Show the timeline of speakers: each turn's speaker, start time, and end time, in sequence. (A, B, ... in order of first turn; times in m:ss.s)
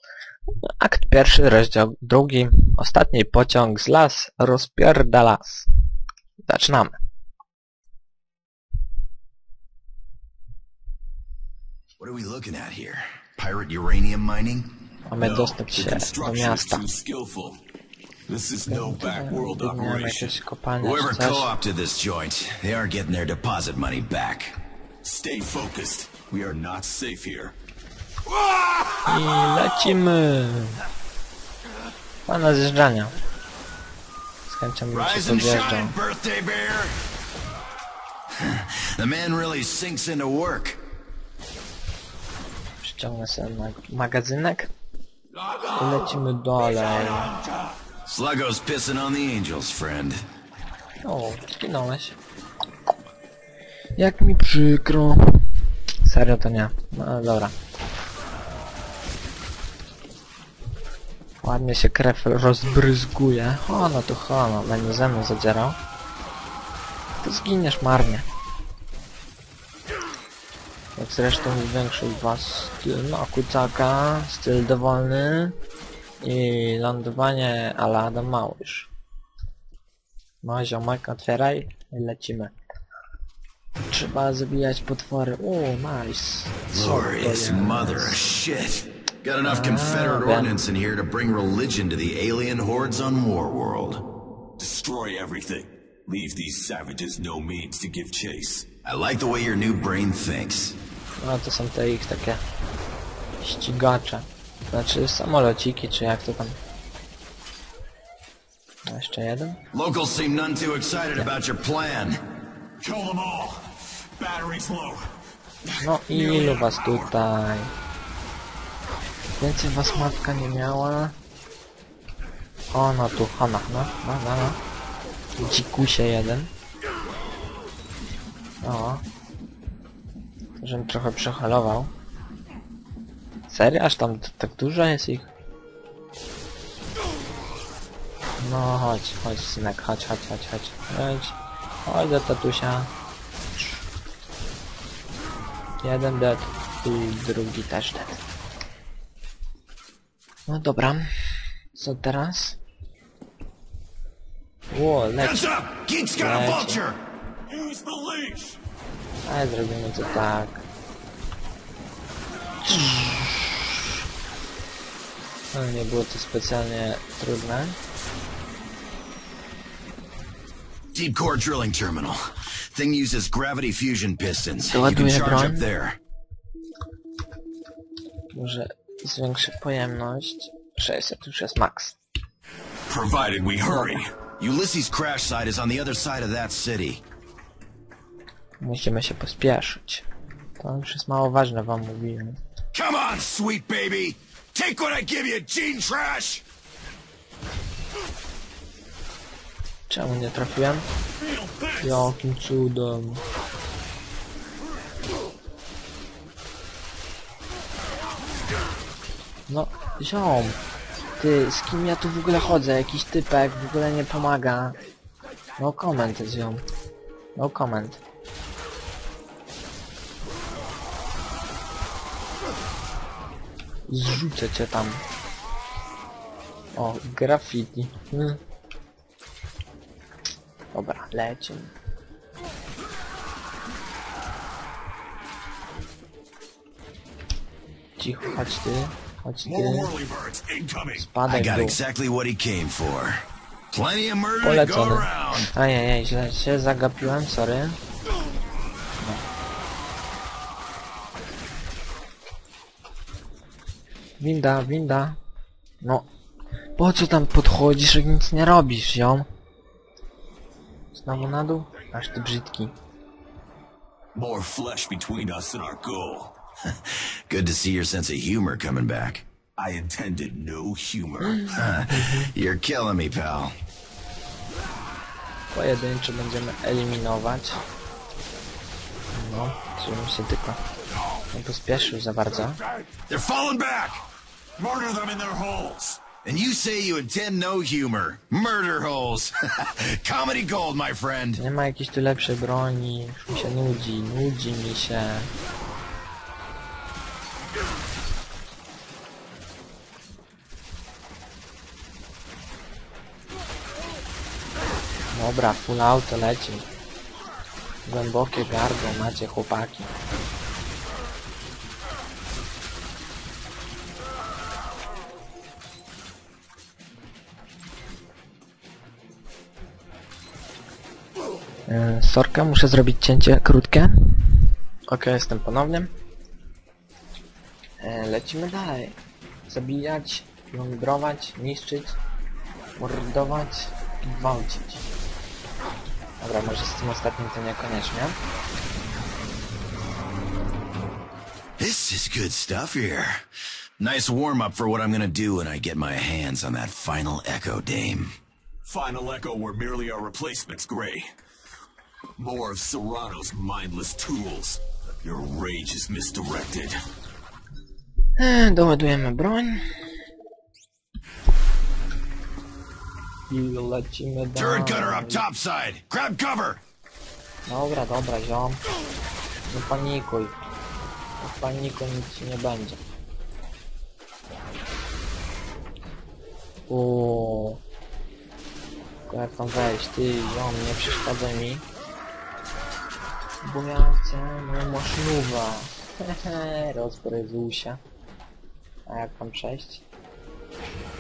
0:00.7-0:05.7 A
0:06.4-0:07.0 A
0:12.0-0:14.7 B
0:15.1-0:16.8 A
0:15.2-0:17.6 C
0:18.3-0:20.4 C
0:18.7-0:21.5 A
0:20.8-0:24.6 B
0:25.0-0:27.5 C
0:29.0-0:30.8 A
0:32.3-0:33.2 A
0:34.5-0:36.0 A
0:34.9-0:37.0 B
0:38.3-0:40.8 B
0:42.8-0:44.7 A
0:45.7-0:47.4 A
0:48.0-0:50.2 B
0:51.0-0:52.2 A
0:54.0-0:55.5 A
0:56.0-0:57.5 A
1:01.4-1:05.8 A
1:07.2-1:08.3 A
1:11.0-1:15.6 A
1:16.2-1:18.9 A
1:20.4-1:22.6 A
1:23.9-1:28.2 A
1:26.7-1:34.0 B
1:29.4-1:30.6 A
1:34.6-1:38.7 C
1:38.8-1:40.8 B
1:41.2-1:42.4 A
1:43.4-1:46.6 A
1:48.8-1:49.6 A
1:49.7-1:52.2 B
1:52.8-1:55.1 C
1:55.6-1:57.1 C
1:55.8-1:57.7 A
1:59.4-2:01.2 A
2:02.7-2:04.6 A
2:05.4-2:06.5 A
2:08.6-2:09.0 A
2:10.6-2:11.9 A
2:13.5-2:15.3 A
2:18.4-2:22.9 A
2:25.8-2:28.2 A
2:30.5-2:31.1 A
2:31.7-2:32.6 A
2:34.7-2:35.5 A
2:35.2-2:37.0 B
2:36.1-2:36.8 A
2:37.5-2:38.6 C
2:39.2-2:40.6 A
2:42.6-2:43.8 A
2:45.5-2:47.8 A
2:50.9-2:52.2 B
2:52.7-2:56.0 B
2:54.6-2:55.7 A
2:58.3-3:02.0 A
3:02.9-3:04.1 C
3:03.7-3:04.0 A
3:04.4-3:07.0 B
3:08.6-3:10.1 A
3:10.6-3:12.4 A
3:12.7-3:16.4 B
3:19.9-3:20.9 A
3:21.2-3:22.1 C
3:21.8-3:23.2 A
3:29.5-3:30.6 A
3:31.2-3:34.8 A
3:35.6-3:36.6 A
3:37.4-3:38.0 A
3:43.9-3:45.0 A
3:46.7-3:48.4 A
3:50.7-3:51.7 A
3:58.0-3:59.9 A
3:59.4-4:01.1 C
4:01.0-4:01.8 A
4:01.3-4:05.5 B
4:04.4-4:07.8 A
4:14.2-4:15.2 A
4:16.8-4:19.3 A
4:20.9-4:22.7 A
4:24.2-4:26.4 C
4:26.8-4:29.2 B
4:29.6-4:31.6 C
4:31.2-4:32.3 A
4:31.5-4:33.5 B
4:35.5-4:37.6 A
4:39.1-4:40.6 A
4:41.3-4:42.6 A
4:43.1-4:44.0 B
4:44.6-4:46.0 C
4:46.2-4:51.4 B
4:51.4-4:55.3 A
5:05.1-5:06.7 A
5:07.9-5:09.9 A
5:21.7-5:25.9 A
5:27.8-5:32.0 A
5:32.8-5:34.9 A
5:36.2-5:38.2 A
5:41.6-5:43.2 B
5:43.8-5:48.1 B
5:48.7-5:51.1 C
5:52.2-5:56.8 C
5:58.2-5:59.6 A
6:03.3-6:05.2 A
6:04.4-6:06.6 B
6:07.5-6:08.6 A
6:09.5-6:10.4 A
6:11.2-6:12.8 A
6:16.7-6:17.6 A
6:19.1-6:21.7 A
6:23.4-6:27.8 A
6:28.9-6:29.8 A